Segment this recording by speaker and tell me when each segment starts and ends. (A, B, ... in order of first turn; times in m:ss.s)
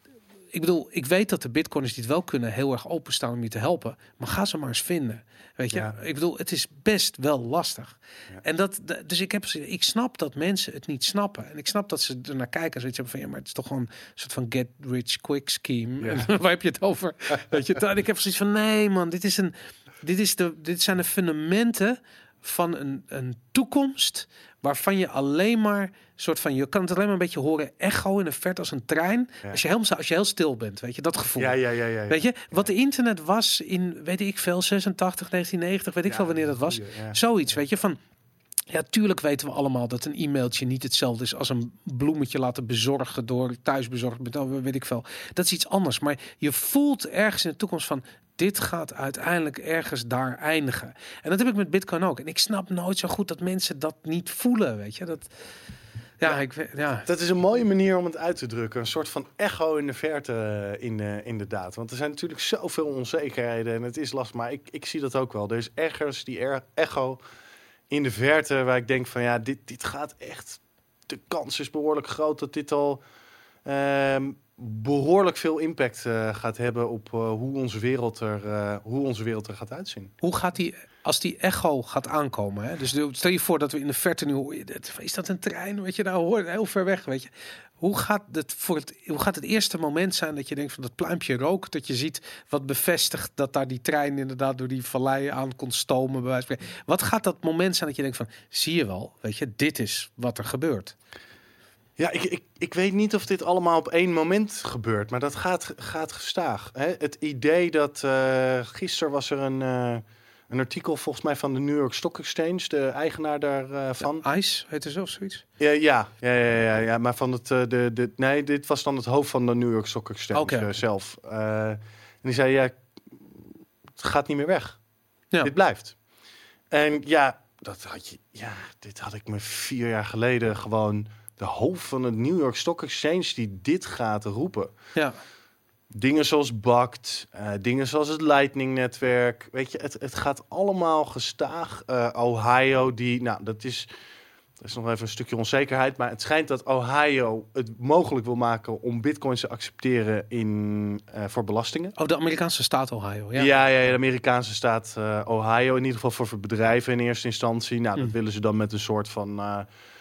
0:00.5-0:38.0 A
0:31.4-0:32.7 B
0:36.1-0:37.2 B
0:38.7-0:55.3 A
0:56.2-0:57.1 A
0:57.0-1:07.2 B
1:07.9-1:13.0 B
1:13.6-1:20.1 B
1:20.2-1:27.3 A
1:27.8-1:41.0 A
1:42.0-1:54.2 B
1:54.0-1:55.4 A
1:55.6-2:04.8 B
2:00.3-2:00.7 A
2:05.4-2:06.0 B
2:06.7-2:14.7 B
2:15.9-2:23.9 B
2:24.6-2:32.0 B
2:32.0-2:33.5 A
2:33.4-2:39.7 B